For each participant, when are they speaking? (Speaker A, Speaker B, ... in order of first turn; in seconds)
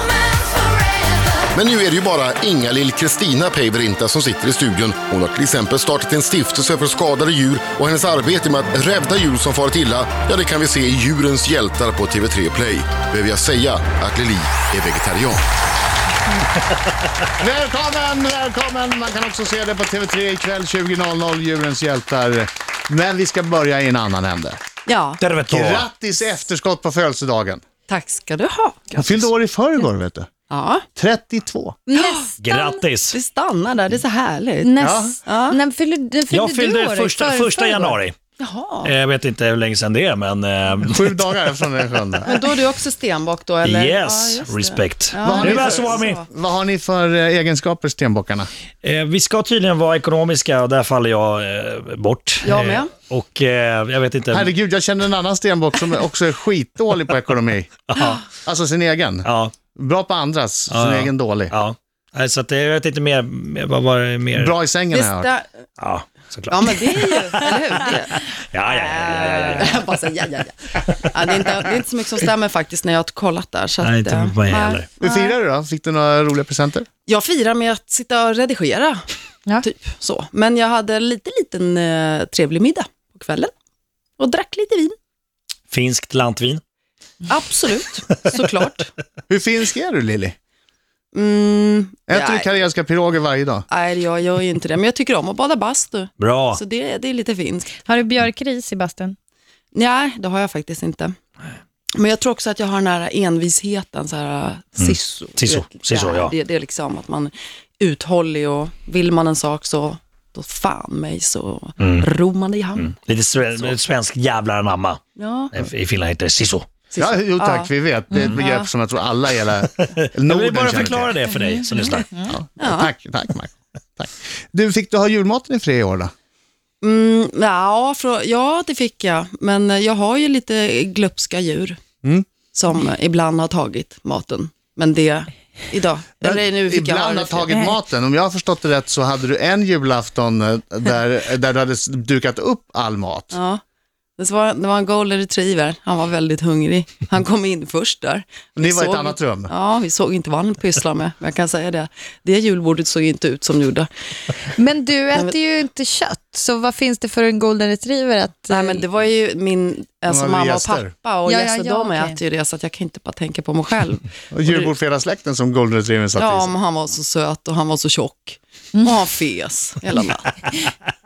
Speaker A: 1.4-15.4
Speaker B: 17.4-24.6, 25.5-27.6, 28.9-30.3, 30.9-31.7, 34.8-35.1, 40.8-42.3, 45.2-48.5, 54.3-57.8, 58.4-61.5, 64.3-65.3, 75.0-76.9, 89.3-90.3, 92.1-93.7, 117.0-121.2, 122.3-126.1, 136.2-143.3, 148.6-149.5, 160.1-160.9, 164.3-166.5
Speaker C: 24.9-25.2, 27.9-29.1, 30.5-30.9, 31.9-32.3, 33.1-34.7, 35.2-35.6, 38.4-38.9, 42.2-46.2, 52.4-52.9, 64.9-65.5, 66.5-68.2, 68.9-75.3, 77.1-79.0, 79.6-83.5, 84.2-85.0, 87.3-88.9, 91.1-92.5, 93.7-97.8, 99.7-101.2, 102.0-113.0, 115.2-115.5, 116.9-118.7, 122.6-122.9, 126.8-131.8, 132.5-137.6, 143.3-143.6, 144.2-154.4, 158.5-164.7, 166.2-170.4
Speaker D: 25.2-25.9, 32.4-33.1, 36.3-38.1, 38.8-41.3, 43.6-46.2, 48.8-54.5, 57.9-58.2, 59.2-59.5, 60.7-64.5, 65.8-67.5, 68.1-69.8, 73.8-74.9, 85.7-86.6, 96.2-96.6, 104.8-106.3, 111.8-112.1, 112.8-115.0, 115.5-116.7, 118.1-118.4, 119.6-122.1
Speaker E: 31.9-32.8, 34.6-37.9, 97.8-99.2, 122.0-122.3, 154.5-158.8, 161.2-162.2